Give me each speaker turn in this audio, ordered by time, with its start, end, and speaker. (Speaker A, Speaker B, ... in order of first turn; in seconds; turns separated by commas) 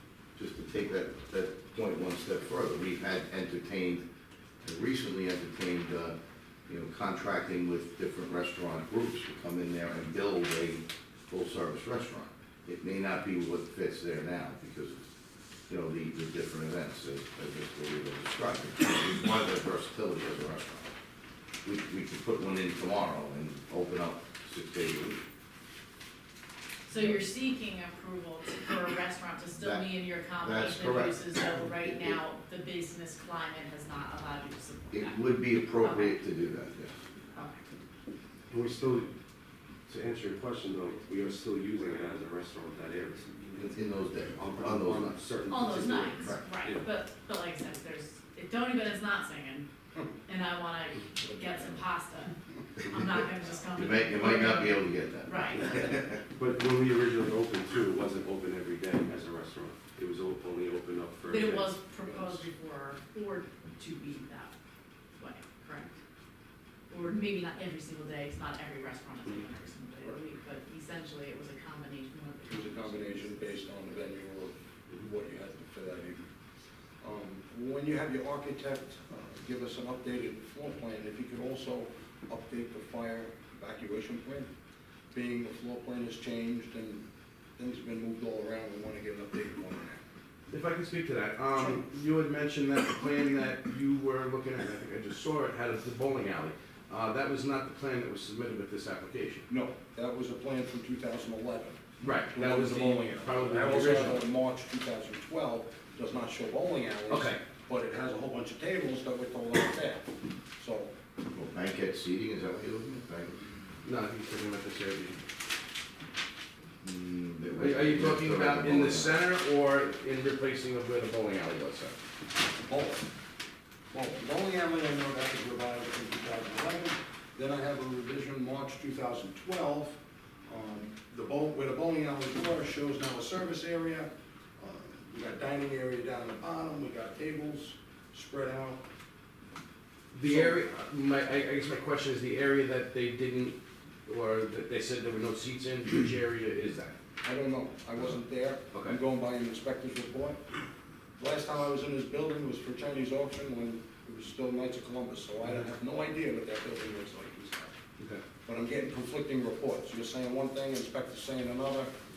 Speaker A: 0.3-4.0, Speaker A: 4.6-6.2, Speaker A: 6.7-15.0, Speaker A: 15.7-20.9, Speaker A: 21.6-25.2, Speaker B: 26.9-36.2, Speaker A: 29.6-32.2, Speaker A: 34.9-36.9, Speaker B: 37.3-37.6, Speaker C: 38.5-39.1, Speaker C: 39.9-46.8, Speaker A: 43.5-45.1, Speaker B: 45.5-49.7, Speaker B: 50.2-55.9, Speaker A: 53.7-56.2, Speaker C: 56.3-61.8, Speaker B: 61.2-64.5, Speaker B: 65.2-66.0, Speaker B: 66.9-73.6, Speaker D: 72.5-76.2, Speaker D: 77.0-84.5, Speaker D: 85.1-87.0, Speaker D: 87.6-90.0, Speaker E: 90.5-99.5, Speaker D: 99.5-110.0, Speaker E: 102.0-104.2, Speaker E: 107.1-107.4, Speaker D: 110.6-110.9, Speaker A: 111.3-113.5, Speaker E: 113.8-115.2, Speaker A: 116.8-119.2, Speaker E: 117.5-121.9, Speaker D: 122.5-123.0, Speaker D: 123.9-138.8, Speaker E: 140.1-146.9, Speaker D: 140.2-140.6, Speaker D: 147.2-150.4, Speaker E: 148.7-149.0, Speaker D: 151.2-157.7, Speaker E: 158.0-158.2, Speaker D: 158.4-161.9